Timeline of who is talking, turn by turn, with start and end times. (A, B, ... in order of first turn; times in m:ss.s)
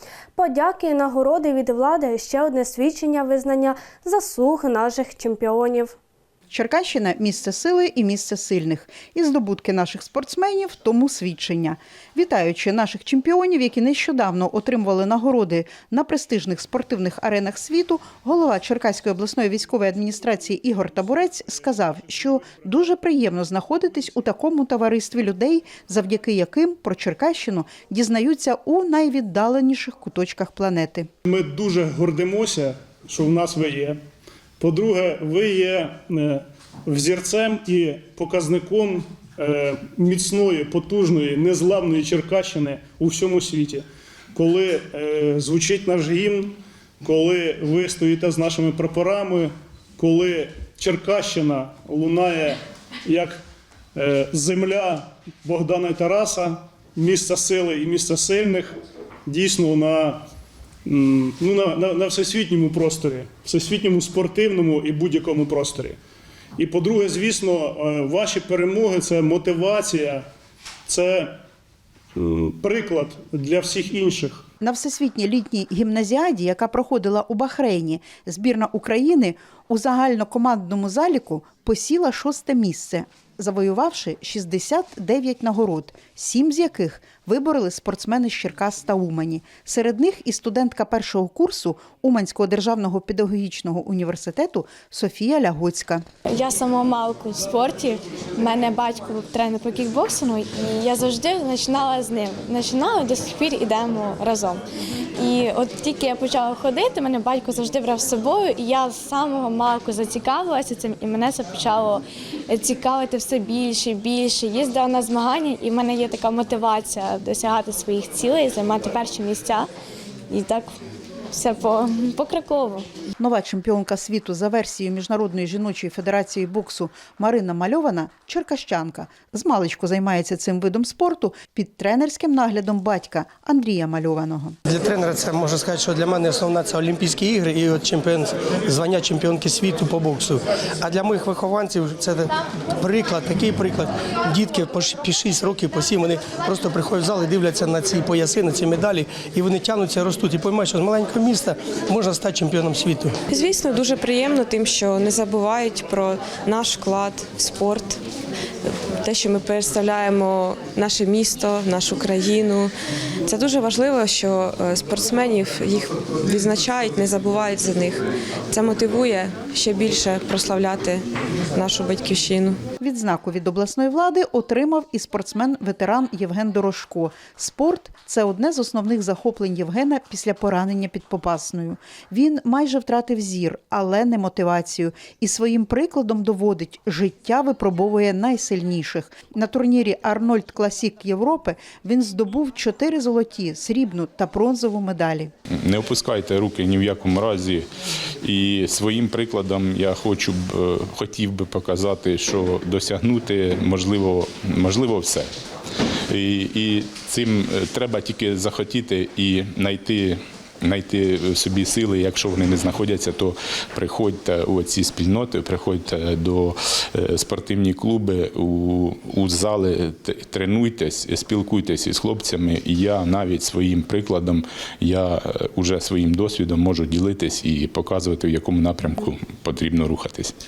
0:00.5-0:05.8 A
0:06.5-0:31.1 B
0:31.2-0:34.0 C
0:34.6-0:53.4 C
0:53.9-1:00.2 C
1:00.8-1:06.0 C
1:06.6-1:10.2 C
1:10.9-1:11.3 C
1:12.2-1:14.4 C
1:14.6-1:36.0 B
1:36.3-1:44.6 D
1:45.2-1:59.7 D
2:00.3-2:00.7 D
2:01.3-2:02.8 D
2:03.2-2:14.6 B
2:14.7-2:33.2 E
2:33.3-2:38.0 F
2:38.6-2:42.7 F
2:43.3-2:52.6 F
2:52.8-3:15.3 B
3:15.5-3:17.6 G
3:18.2-3:25.3 G
3:26.1-3:50.3 G